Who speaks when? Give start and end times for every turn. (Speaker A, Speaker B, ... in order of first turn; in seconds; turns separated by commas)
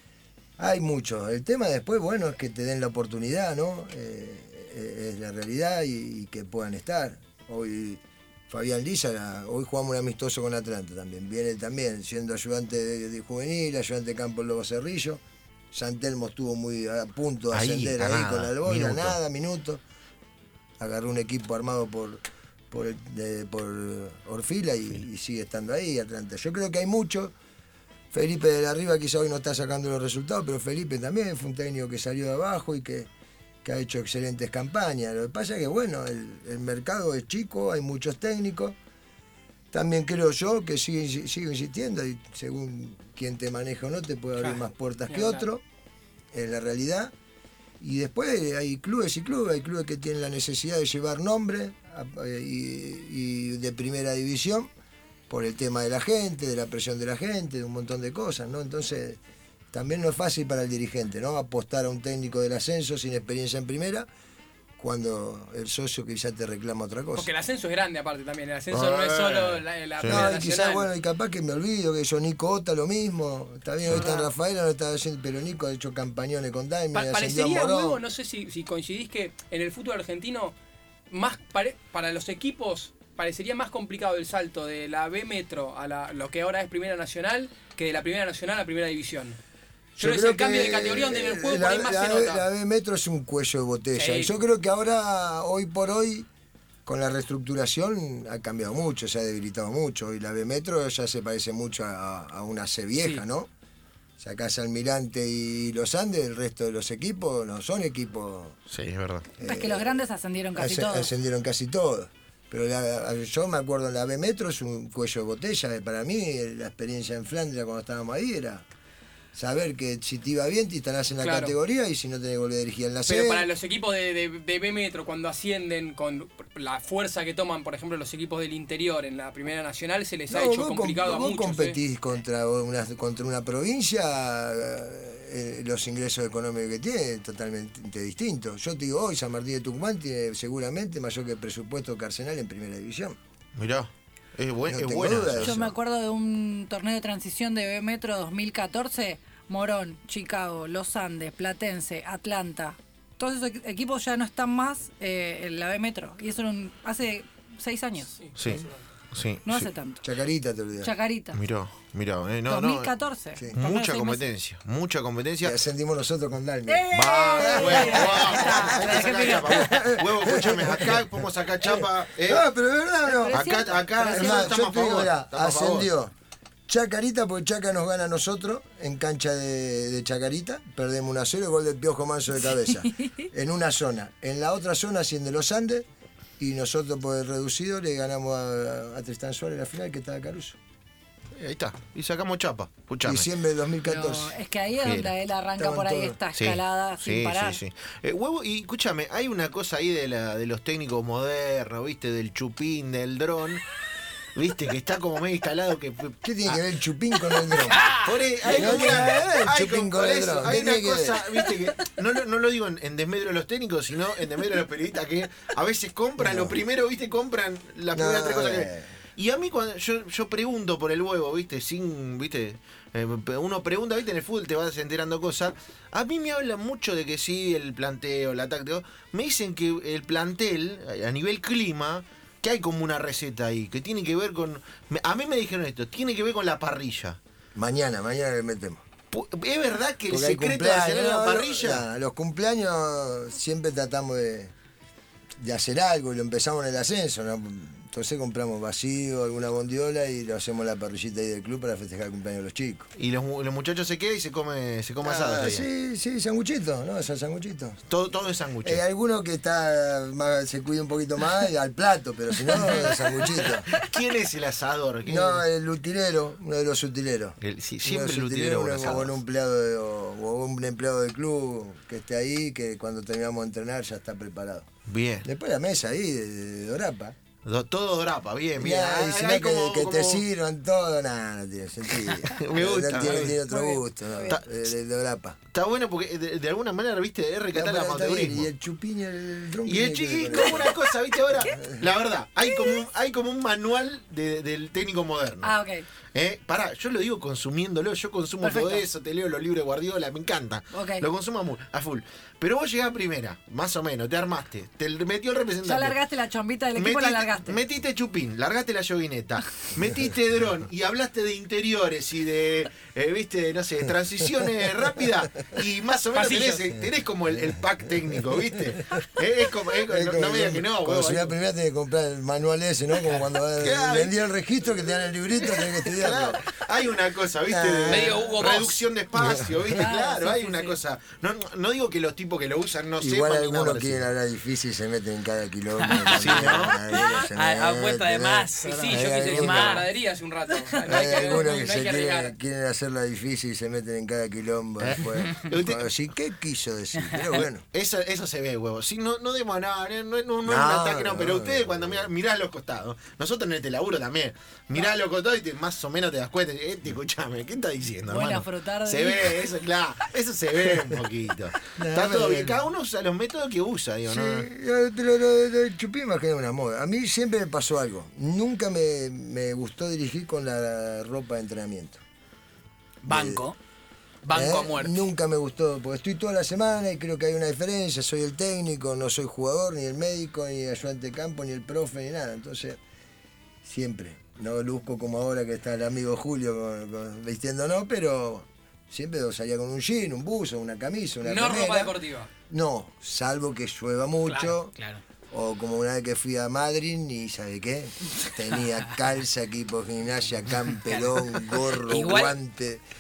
Speaker A: 0.6-15.2, Speaker A: 15.7-19.8, Speaker B: 17.5-19.2, Speaker A: 20.8-27.3, Speaker A: 28.1-33.1, Speaker A: 33.6-38.8, Speaker A: 39.7-45.6, Speaker C: 44.4-45.5, Speaker A: 46.3-47.1, Speaker A: 47.8-54.7, Speaker A: 55.3-59.2, Speaker A: 59.7-64.1, Speaker A: 64.8-67.3, Speaker C: 67.2-70.9, Speaker B: 68.7-70.3, Speaker A: 70.0-78.0, Speaker D: 73.9-74.3, Speaker C: 76.9-80.5, Speaker C: 81.1-89.4, Speaker A: 90.0-96.3, Speaker C: 90.0-92.4, Speaker C: 94.0-94.3, Speaker A: 96.8-103.5, Speaker A: 104.2-108.6, Speaker B: 108.7-109.3, Speaker A: 109.4-110.0, Speaker D: 109.4-111.1, Speaker A: 110.6-118.7, Speaker A: 119.3-123.5, Speaker C: 121.2-121.5, Speaker C: 123.1-131.8, Speaker A: 130.3-143.2, Speaker B: 143.6-145.6, Speaker A: 144.7-145.7, Speaker D: 145.4-158.2, Speaker C: 158.2-158.6, Speaker B: 158.3-159.7, Speaker D: 159.5-160.1, Speaker A: 160.0-160.9, Speaker D: 160.8-161.4, Speaker B: 161.3-162.9, Speaker D: 162.5-164.2, Speaker B: 163.5-165.6, Speaker A: 165.4-176.1, Speaker D: 166.7-170.0, Speaker B: 166.9-172.4, Speaker D: 173.1-174.6, Speaker B: 173.3-175.9, Speaker A: 176.7-185.9, Speaker A: 186.4-190.6, Speaker B: 191.3-193.3, Speaker A: 193.0-194.4, Speaker D: 193.9-197.6, Speaker B: 194.8-195.1, Speaker A: 195.6-196.2, Speaker B: 196.3-203.6, Speaker B: 204.3-206.6, Speaker A: 206.2-207.8, Speaker E: 207.7-208.1, Speaker B: 208.0-237.2, Speaker A: 208.5-211.2, Speaker A: 216.2-216.6, Speaker A: 217.9-218.9, Speaker A: 237.6-238.8, Speaker B: 239.1-241.9, Speaker A: 240.1-244.5, Speaker A: 245.4-252.9, Speaker B: 253.0-255.7, Speaker A: 255.0-257.8, Speaker B: 257.9-258.8, Speaker A: 258.6-263.7, Speaker B: 263.7-265.4, Speaker A: 265.1-274.7, Speaker B: 267.4-269.2, Speaker B: 274.9-275.3, Speaker A: 275.2-277.2, Speaker B: 277.4-280.2, Speaker A: 278.6-285.4, Speaker B: 282.3-283.4, Speaker D: 283.3-284.4, Speaker B: 285.5-288.5, Speaker A: 287.5-290.7, Speaker B: 289.7-295.5, Speaker D: 290.3-291.6, Speaker A: 291.4-291.8, Speaker D: 292.4-292.8, Speaker D: 295.4-295.9, Speaker B: 296.1-306.0, Speaker D: 298.4-298.9, Speaker D: 300.7-301.1, Speaker D: 305.6-307.6, Speaker B: 306.8-321.3, Speaker C: 316.1-316.6, Speaker A: 319.9-326.4, Speaker B: 323.6-324.3, Speaker B: 325.4-334.1, Speaker A: 327.5-328.3, Speaker E: 327.9-328.8, Speaker A: 329.2-329.5, Speaker D: 329.8-330.8, Speaker A: 333.0-339.9, Speaker E: 335.8-339.9, Speaker B: 336.1-336.8, Speaker C: 338.6-342.3, Speaker A: 340.9-347.6, Speaker B: 344.8-345.9, Speaker B: 347.7-364.5, Speaker A: 350.4-352.1, Speaker D: 358.1-359.5, Speaker A: 361.8-362.6, Speaker A: 364.1-372.0, Speaker A: 373.1-373.4, Speaker E: 373.1-373.6, Speaker E: 374.2-375.0, Speaker A: 374.3-382.8, Speaker A: 383.6-391.9, Speaker C: 391.2-392.3, Speaker A: 392.5-394.7, Speaker E: 394.3-395.0, Speaker A: 395.3-402.8, Speaker E: 400.9-402.4